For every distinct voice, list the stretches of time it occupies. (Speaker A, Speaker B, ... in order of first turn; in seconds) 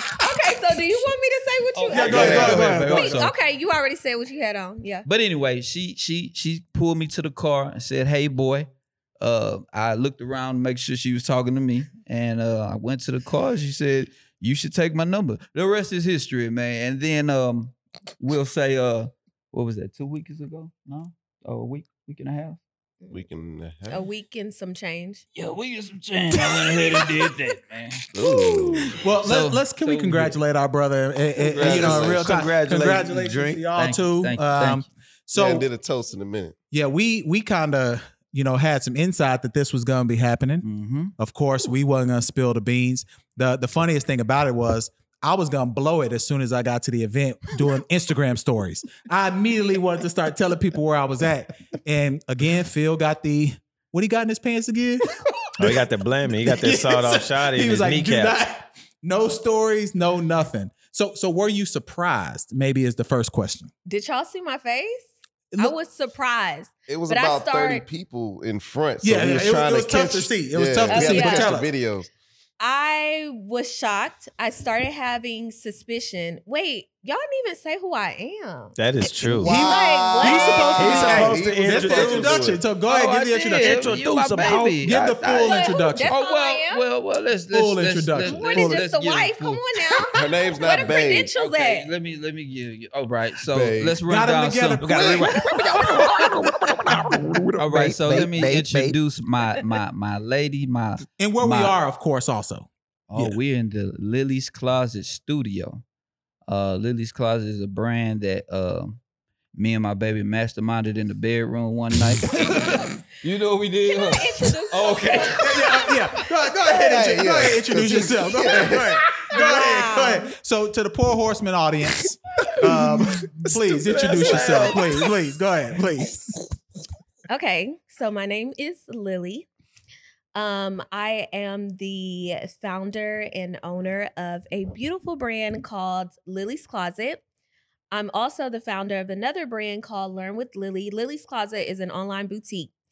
Speaker A: 0.2-5.0, 23.9-25.2, 63.9-67.9, 70.9-71.5, 72.6-78.8, 79.5-81.2, 85.4-86.8, 88.2-91.9, 113.9-115.4, 119.3-120.3, 127.3-129.5, 130.3-137.2, 137.9-142.7
Speaker B: 1.7-3.3, 5.0-22.6, 25.3-28.1, 29.2-30.4, 33.7-34.9, 40.6-41.1, 82.8-89.6, 91.3-94.9, 97.6-101.8, 103.1-105.8, 106.5-109.0, 109.5-115.6
Speaker C: 1.9-3.3, 28.2-35.7, 36.7-40.6, 41.2-55.8, 56.4-63.7, 69.0-71.7, 79.3-84.0, 84.8-86.1, 87.5-88.5, 94.0-95.3, 101.2-103.4, 115.4-126.2
Speaker D: 2.1-2.7, 23.1-24.1, 28.1-29.0, 31.4-32.3, 35.3-36.5, 66.9-72.1, 79.4-82.6, 90.1-91.3, 93.5-94.0, 94.9-95.3, 116.7-119.3
Speaker E: 31.6-33.6, 55.6-58.4, 78.8-79.5, 80.8-82.5, 83.5-84.8, 94.8-99.0, 123.5-125.1